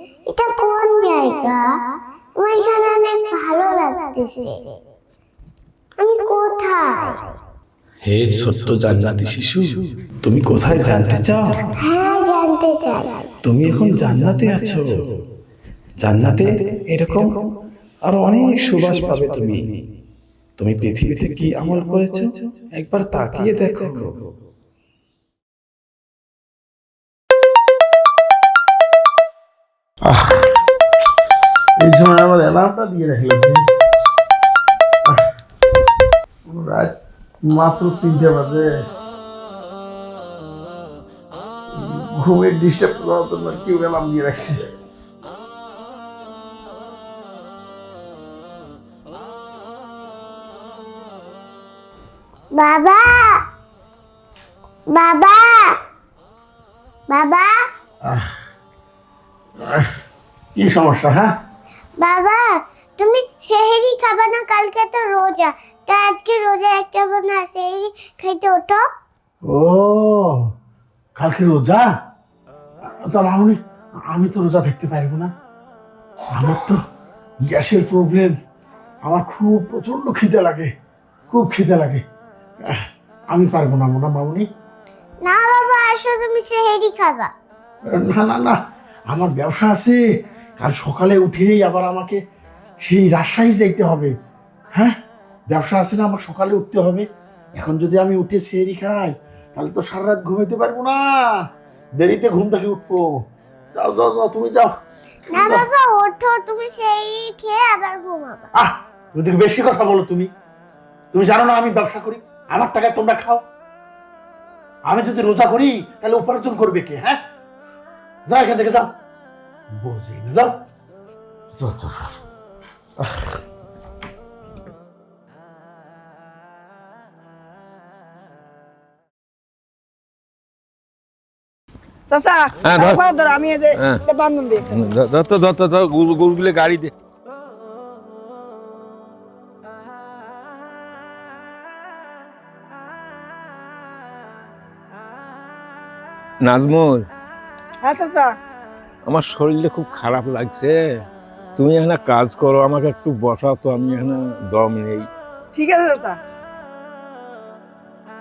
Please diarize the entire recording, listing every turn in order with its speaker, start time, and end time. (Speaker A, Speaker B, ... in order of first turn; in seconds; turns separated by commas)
Speaker A: 0.3-1.7, Speaker A: 2.4-4.8, Speaker A: 6.0-7.3, Speaker B: 8.0-11.6, Speaker A: 11.8-13.3, Speaker B: 13.4-15.0, Speaker B: 16.0-17.4, Speaker B: 18.1-19.8, Speaker B: 20.6-24.2, Speaker C: 30.1-30.4, Speaker C: 31.8-33.6, Speaker C: 36.5-38.7, Speaker C: 41.7-44.6, Speaker A: 52.6-53.4, Speaker A: 54.9-55.7, Speaker A: 57.1-57.5, Speaker C: 58.0-58.3, Speaker C: 59.6-59.9, Speaker C: 60.5-61.3, Speaker A: 62.0-62.4, Speaker A: 63.0-68.8, Speaker C: 69.5-70.4, Speaker C: 71.2-71.9, Speaker C: 73.0-73.6, Speaker C: 74.1-75.3, Speaker C: 76.3-76.8, Speaker C: 77.5-78.3, Speaker C: 79.1-80.7, Speaker C: 81.3-82.0, Speaker C: 82.6-84.5, Speaker A: 85.2-87.3, Speaker C: 87.9-88.6, Speaker C: 89.1-90.0, Speaker C: 90.6-92.2, Speaker C: 92.8-94.1, Speaker C: 95.5-101.2, Speaker C: 102.0-103.1, Speaker C: 103.8-104.7, Speaker A: 105.3-108.5, Speaker C: 105.4-105.7, Speaker C: 108.6-110.3, Speaker C: 111.1-113.4, Speaker C: 114.9-117.2, Speaker C: 118.3-118.9, Speaker C: 119.8-120.5, Speaker C: 121.6-122.1, Speaker D: 132.1-134.8, Speaker E: 132.7-133.1, Speaker E: 134.6-136.9, Speaker E: 146.4-147.1, Speaker D: 147.8-148.4, Speaker E: 149.1-150.8, Speaker E: 151.6-155.1, Speaker D: 155.5-156.2